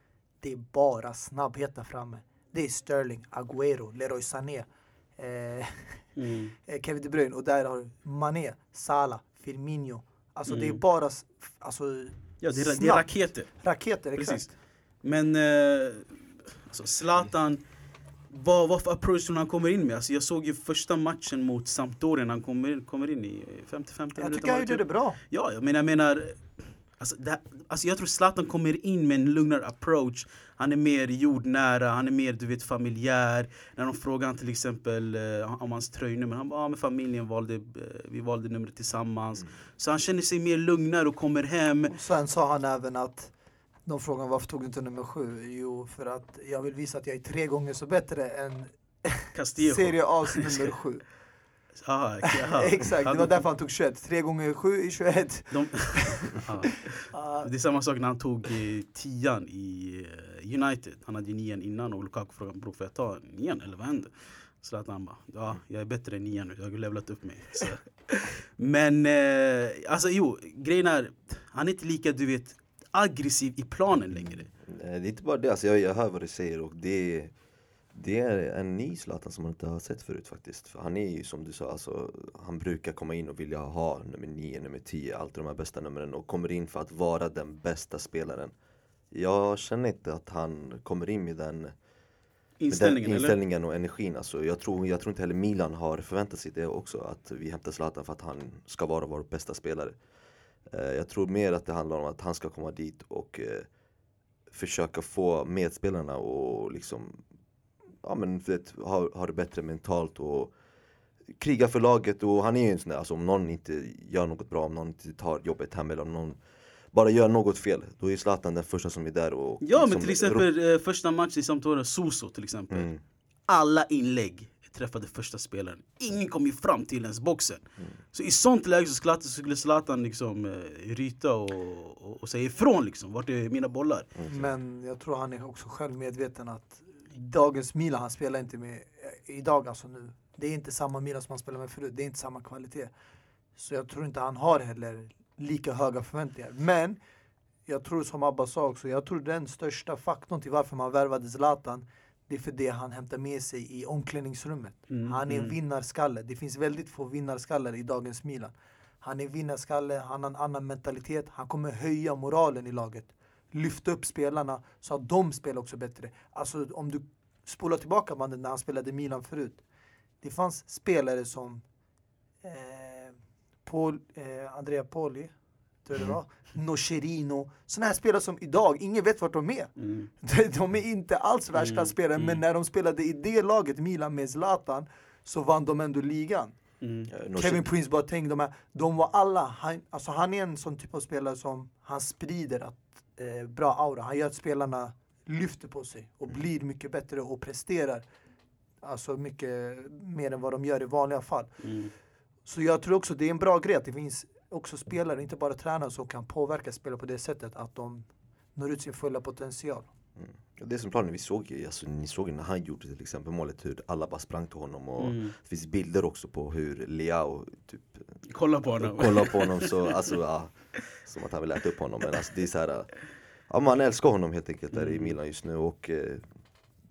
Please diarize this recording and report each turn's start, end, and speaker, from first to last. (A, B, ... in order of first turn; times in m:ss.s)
0:00.4-0:04.6 A
0:05.2-0:06.1 A
0:06.2-0:06.5 B
0:06.6-0:14.5 A
0:10.5-0:10.8 B
0:12.4-0:13.5 B
0:14.2-0:14.5 B
0:15.0-0:17.6 B
0:18.3-0:26.4 B
0:24.2-0:25.2 A
0:27.0-0:41.9 B
0:41.9-0:43.3 A
0:43.8-0:51.0 A
0:49.3-0:50.7 B
0:51.8-0:53.4 B
0:52.2-0:56.4 A
0:55.5-1:14.5 B
0:57.1-0:57.5 A
1:14.6-1:17.3 C
1:17.9-1:28.5 C
1:29.1-1:31.7 C
1:32.6-1:33.4 B
1:32.7-1:39.9 C
1:40.7-1:43.7 C
1:44.5-1:47.2 C
1:48.0-1:50.5 C
1:51.4-1:56.4 C
1:56.9-2:00.4 C
1:59.6-2:02.9 B
2:02.7-2:03.0 C
2:03.5-2:07.6 B
2:08.1-2:14.1 B
2:14.2-2:14.5 C
2:14.3-2:22.9 A
2:23.6-2:27.0 A
2:27.6-2:49.6 A
2:34.9-2:35.5 B
2:50.2-2:51.6 A
2:52.4-2:55.3 A
2:55.8-3:06.6 A
2:59.8-3:00.1 B
3:01.6-3:02.4 B
3:06.8-3:07.1 B
3:07.1-3:07.7 C
3:07.3-3:18.0 A
3:18.8-3:21.5 A
3:21.6-3:21.9 B
3:22.4-3:29.9 A
3:30.2-3:38.2 C
3:35.0-3:35.3 B
3:38.3-3:40.0 B
3:38.8-3:43.0 C
3:43.5-3:46.2 C
3:44.7-3:45.1 B